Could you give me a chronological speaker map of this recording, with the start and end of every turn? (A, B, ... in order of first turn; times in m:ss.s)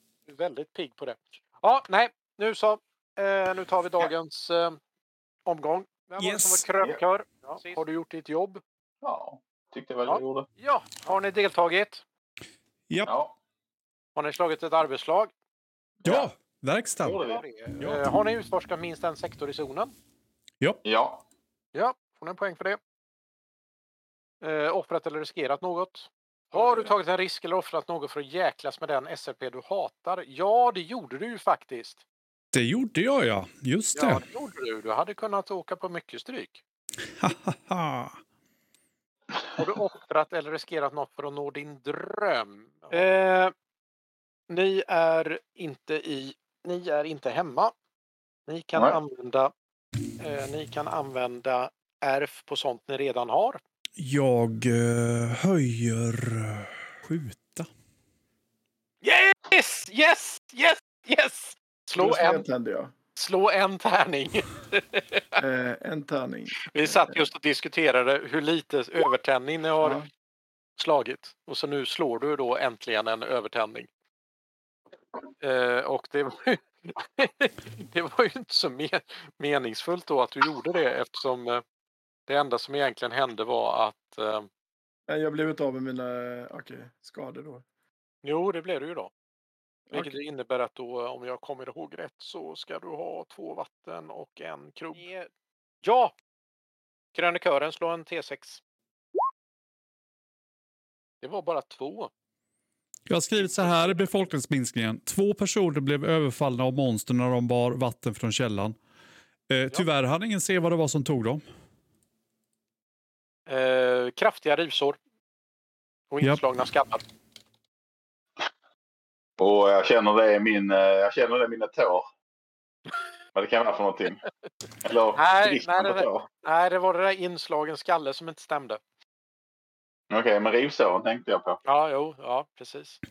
0:00.3-0:04.8 A
0:05.5-0:08.6 A
0:06.2-0:06.6 B
0:09.0-0:10.5 C
0:10.1-0:12.0 A
0:13.1-0:13.3 C
0:14.2-0:15.3 A
0:16.0-0:16.3 C
0:16.0-0:17.2 B
0:17.0-0:17.4 C
0:17.2-0:19.9 A
0:17.8-0:18.0 B
0:20.8-0:21.2 C
0:21.7-0:22.8 A
0:24.4-0:32.0 A
0:32.5-0:34.2 B
0:33.9-0:36.6 A
0:37.2-0:38.2 B
0:39.6-0:43.5 A
0:44.5-0:47.7 A
0:48.5-0:49.5 A
0:50.2-0:53.6 A
0:54.0-0:57.7 B
0:59.0-1:02.5 A
1:02.0-1:02.9 D
1:03.2-1:05.2 A
1:05.4-1:06.6 D
1:06.6-1:10.0 A
1:09.8-1:10.1 D
1:10.8-1:13.9 A
1:15.4-1:21.6 A
1:22.3-1:24.5 A
1:25.1-1:27.6 D
1:28.2-1:29.1 A
1:29.9-1:35.3 A
1:35.8-1:36.2 A
1:37.1-1:38.6 A
1:41.2-1:42.1 A
1:43.1-1:48.8 B
1:43.4-1:44.0 A
1:49.5-1:51.4 B
1:53.5-1:55.0 A
1:56.1-1:57.0 A
1:59.4-2:02.1 C
2:03.4-2:04.2 C
2:04.8-2:06.3 C
2:05.2-2:08.8 A
2:10.1-2:11.6 C
2:11.6-2:13.0 A